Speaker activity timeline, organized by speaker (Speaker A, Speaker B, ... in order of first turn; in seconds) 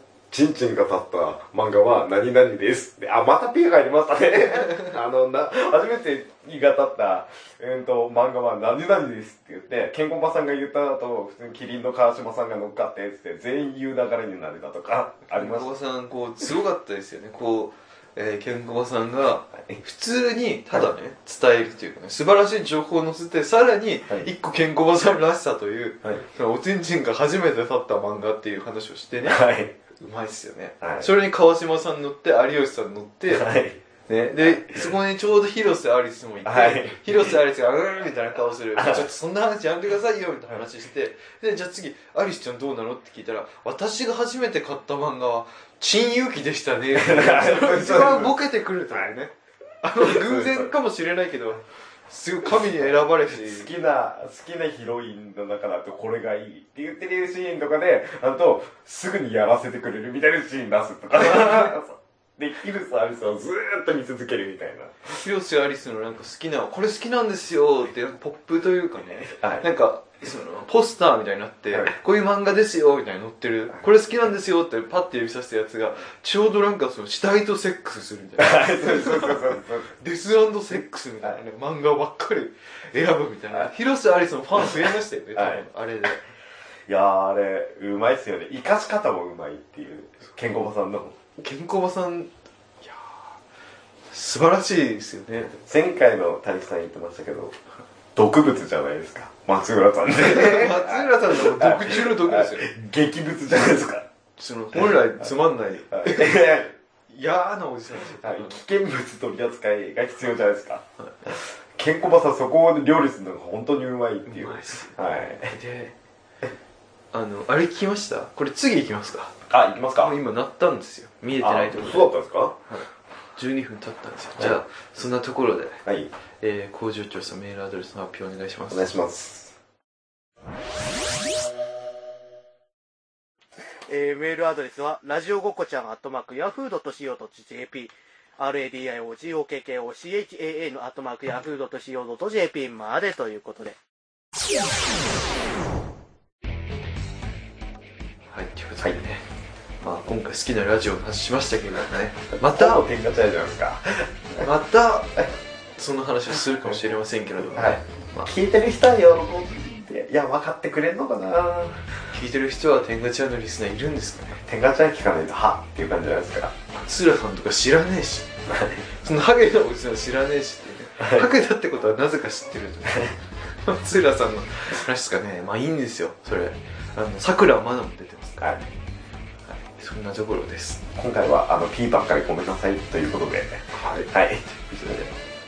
Speaker A: 0.3-15.7, 29.2-29.7, 30.8-31.1, 33.3-33.8, 34.4-34.9, 36.4-37.3, 38.8-39.1, 47.0-48.4, 50.0-50.7, 52.6-65.2, 69.3-69.7, 78.4-79.9, 85.3-85.6, 86.9-91.2, 95.5-97.5, 98.1-104.0, 104.7-105.2, 105.9-106.7, 108.1-115.5, 119.5-120.1, 121.4-122.5, 125.8-126.1, 128.7-129.5, 152.4-154.5, 157.5-161.9, 164.4-166.5, 168.5-168.9, 171.0-171.3, 178.4-178.6, 180.9-185.1
Speaker B: 15.3-29.4, 29.9-33.5, 34.1-53.7, 65.2-86.2, 91.4-93.2, 94.1-95.5, 100.2-102.7, 104.4-106.4, 107.1-108.6, 114.3-115.9, 117.1-119.3, 120.0-122.1, 123.4-125.8, 126.4-128.9, 148.3-149.2, 149.8-152.8, 154.4-155.2, 155.8-158.3, 162.1-164.4, 166.7-168.3, 169.0-178.7, 179.4-180.8, 183.7-184.1, 184.8-185.1
Speaker C: 133.9-143.8